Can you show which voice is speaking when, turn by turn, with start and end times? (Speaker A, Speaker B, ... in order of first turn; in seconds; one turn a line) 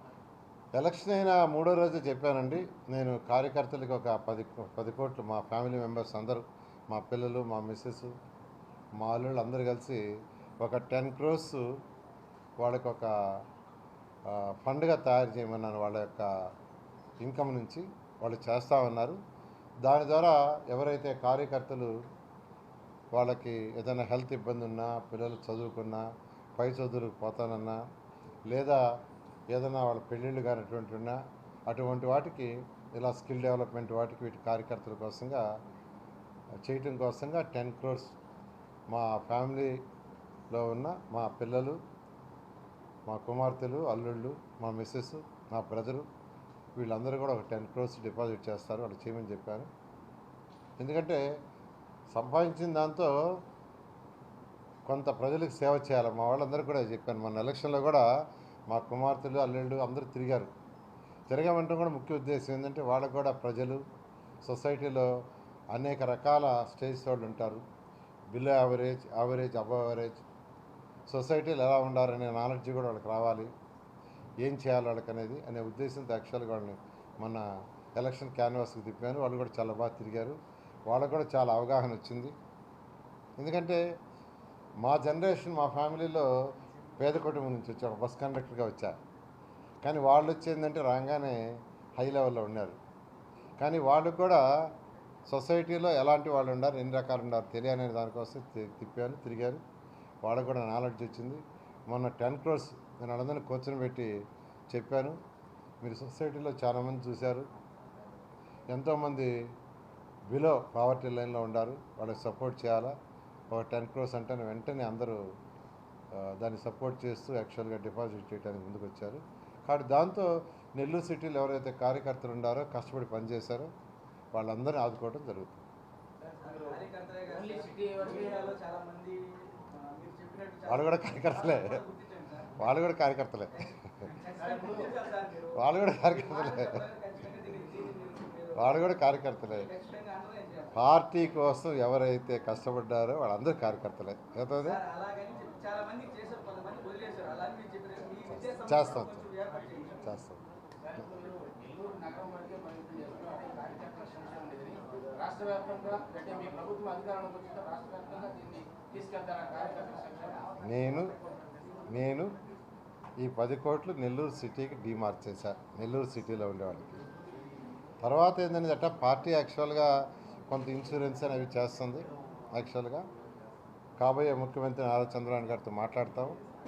Speaker A: 0.7-8.1
Speaker A: 9.0-10.0
Speaker A: 10.6-11.7
Speaker A: 12.6-13.1
Speaker A: 14.3-16.3
Speaker A: 17.2-19.2
Speaker A: 19.8-21.9
Speaker A: 23.1-26.0
Speaker A: 26.6-27.8
Speaker A: 28.5-28.8
Speaker A: 29.5-35.4
Speaker A: 36.6-38.1
Speaker A: 38.9-39.8
Speaker A: 40.5-41.8
Speaker A: 43.1-46.0
Speaker A: 46.8-49.7
Speaker A: 50.8-51.2
Speaker A: 52.1-53.2
Speaker A: 54.9-58.0
Speaker A: 58.7-60.5
Speaker A: 61.3-63.8
Speaker A: 64.4-65.1
Speaker A: 65.7-67.6
Speaker A: 68.3-70.2
Speaker A: 71.1-73.5
Speaker A: 74.4-77.4
Speaker A: 78.0-82.3
Speaker A: 83.4-83.8
Speaker A: 84.8-86.3
Speaker A: 87.0-89.0
Speaker A: 89.8-91.4
Speaker A: 92.0-92.8
Speaker A: 93.6-94.4
Speaker A: 95.3-99.6
Speaker A: 100.2-104.1
Speaker A: 104.7-105.2
Speaker A: 105.8-107.5
Speaker A: 108.7-109.3
Speaker A: 110.3-112.9
Speaker A: 113.5-115.2
Speaker A: 116.1-123.7
Speaker A: 124.3-125.6
Speaker B: 126.4-132.5
Speaker C: 127.3-128.6
Speaker A: 130.6-131.8
Speaker A: 132.6-134.1
Speaker B: 134.1-138.9
Speaker C: 134.4-134.9
Speaker A: 135.5-136.8
Speaker A: 138.6-139.7
Speaker B: 139.6-140.7
Speaker A: 140.7-144.8
Speaker B: 144.6-150.1
Speaker A: 148.3-149.3
Speaker A: 150.0-150.4
Speaker C: 150.9-160.5
Speaker A: 160.6-161.1
Speaker A: 161.9-162.3
Speaker A: 163.2-167.0
Speaker A: 168.0-169.9
Speaker A: 170.5-173.0
Speaker A: 174.0-176.4